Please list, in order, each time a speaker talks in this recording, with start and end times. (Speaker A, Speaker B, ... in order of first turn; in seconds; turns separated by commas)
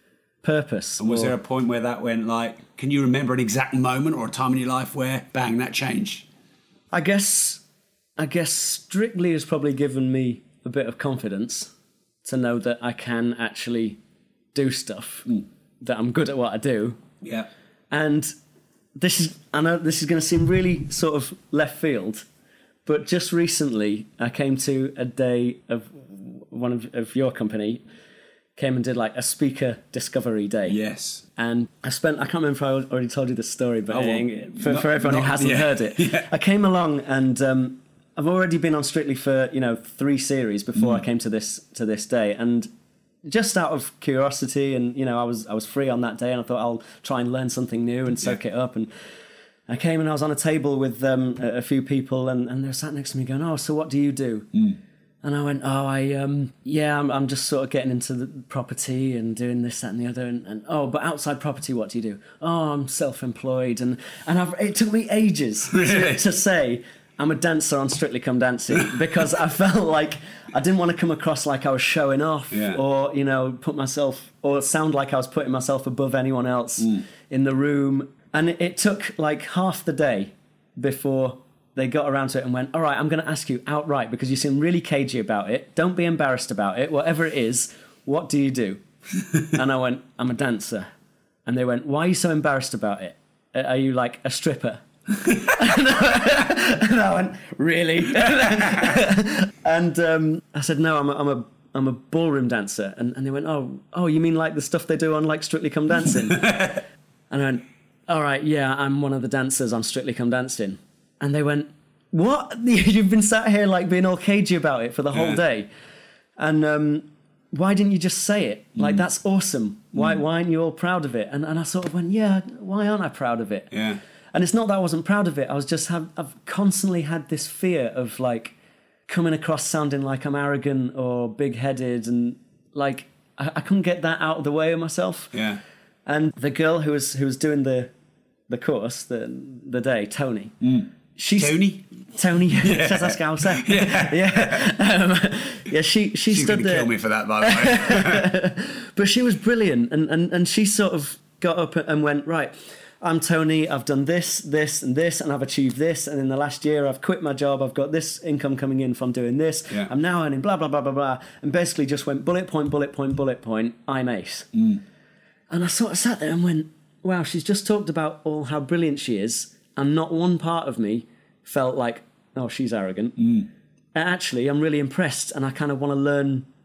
Speaker A: 0.4-1.4, Speaker B: 1.0-6.3, Speaker A: 6.9-7.6, Speaker A: 8.2-11.7, Speaker A: 12.2-14.0, Speaker A: 14.5-17.0, Speaker B: 17.2-17.5, Speaker A: 17.9-18.3, Speaker A: 19.0-22.3, Speaker A: 22.9-27.8, Speaker A: 28.6-30.8, Speaker B: 30.7-31.2, Speaker A: 31.4-42.7, Speaker B: 33.9-36.3, Speaker A: 43.2-48.9, Speaker A: 49.7-54.5, Speaker A: 55.2-88.8, Speaker B: 65.7-66.2, Speaker B: 72.5-72.8, Speaker A: 89.4-90.9, Speaker A: 91.5-115.7, Speaker B: 98.4-99.0, Speaker B: 115.1-115.4, Speaker A: 116.4-123.7, Speaker B: 123.7-124.0, Speaker A: 124.3-128.5, Speaker A: 129.1-135.3, Speaker B: 135.3-135.6, Speaker A: 136.1-137.9, Speaker A: 138.5-140.6, Speaker B: 140.6-141.8, Speaker A: 141.2-141.6, Speaker A: 142.1-164.5, Speaker B: 142.6-144.7, Speaker B: 146.3-148.3, Speaker B: 164.5-164.8, Speaker A: 165.5-173.3, Speaker B: 173.2-173.5, Speaker A: 173.9-176.5